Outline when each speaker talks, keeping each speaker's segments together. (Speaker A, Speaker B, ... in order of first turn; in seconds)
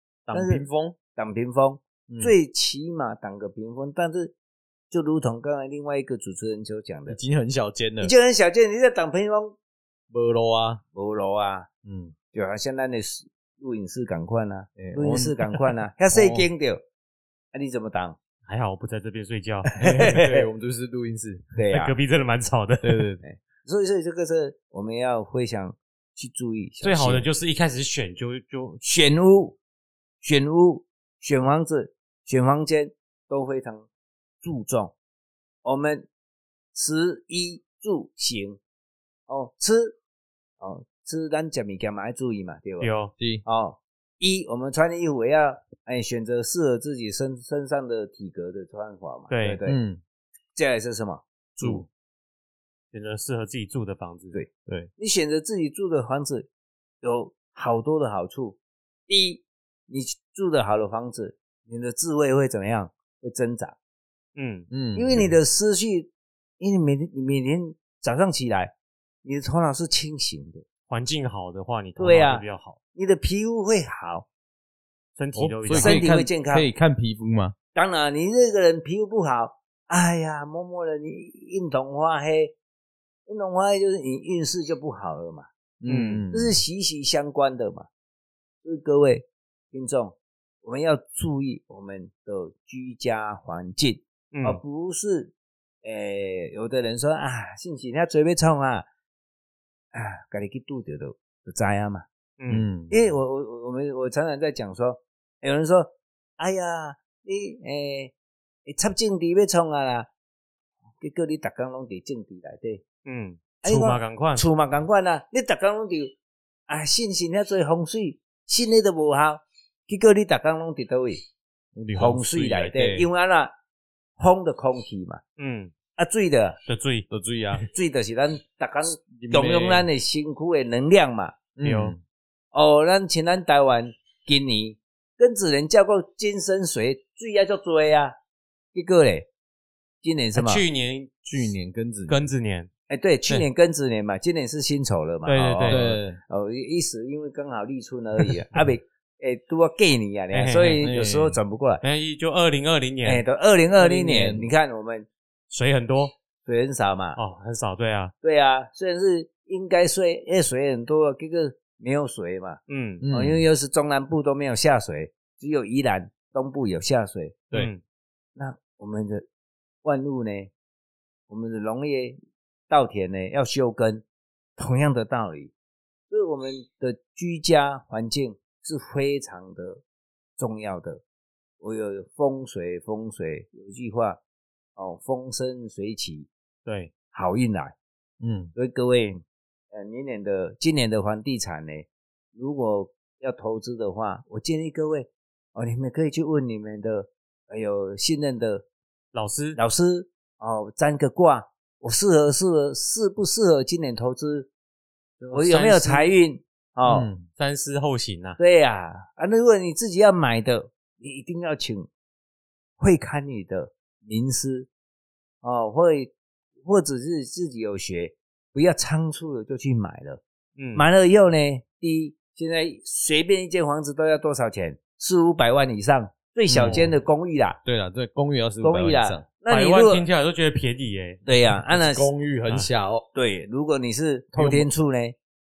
Speaker A: 0.3-0.9, 2.1-2.3, 7.1-8.1, 10.1-10.8, 11.8-12.1, 14.8-16.5, 19.8-21.5, 22.8-23.2, 43.2-43.4, 49.6-50.0, 64.7-65.3, 75.3-77.5, 85.8-86.5, 102.5-103.0, 121.7-123.1, 127.1-127.7, 129.2-129.9, 131.6-132.0, 141.2-142.2, 145.7-146.2, 150.8-151.4, 153.8-154.5, 163.0-163.4, 188.2-188.5, 206.8-207.3, 226.5-226.9, 227.6-229.2, 231.5-233.1, 234.3-234.7
Speaker B: 0.3-0.6, 1.1-4.3, 4.9-7.2, 8.0-9.6, 10.9-11.7, 12.3-16.8, 17.5-18.2, 19.8-20.4, 21.5-21.9, 23.2-27.2, 28.8-29.6, 30.2-33.9, 34.4-34.9, 35.6-36.1, 36.7-38.6, 39.3-40.0, 40.6-42.9, 43.4-49.8, 50.5-51.9, 54.3-56.5, 57.0-63.8, 64.9-70.6, 72.0-74.3, 75.7-76.7, 77.7-82.5, 83.3-85.5, 86.3-87.9, 88.6-98.8, 99.9-102.0, 102.9-108.1, 108.7-110.1, 111.0-112.8, 113.6-116.1, 116.7-121.2, 121.9-123.5, 124.2-125.2, 126.0-126.6, 127.7-131.4, 132.5-138.1, 138.7-139.3, 140.0-140.6, 142.9-151.8, 153.0-155.1, 156.4-157.2, 158.2-162.6, 163.1-167.4, 168.3-169.2, 169.8-170.5, 171.3-174.0, 174.6-175.5, 176.1-179.8, 180.4-181.0, 181.6-184.2, 184.8-186.3, 187.1-187.7, 188.5-198.6, 199.6-204.5, 205.3-207.1, 208.4-211.9, 212.8-214.7, 215.4-220.2, 220.7-227.6, 228.6-230.0, 231.2-232.1, 233.1-235.2
Speaker C: 18.4-19.7, 21.7-23.0, 26.8-28.8, 42.8-43.1, 49.3-49.6, 52.9-54.4, 64.3-64.7, 70.9-72.8, 75.2-76.0, 85.9-86.2, 94.3-94.6, 102.4-102.7, 113.0-114.5, 125.4-125.7, 126.7-127.1, 131.6-131.9, 140.3-141.1, 142.1-142.7, 145.2-145.8, 150.3-150.9, 151.8-153.2, 155.5-156.1, 157.2-158.1, 162.7-163.0, 167.5-167.8, 186.6-186.9, 199.1-199.6, 205.2-206.1, 207.4-208.4, 220.6-220.9, 226.6-226.9, 229.5-231.2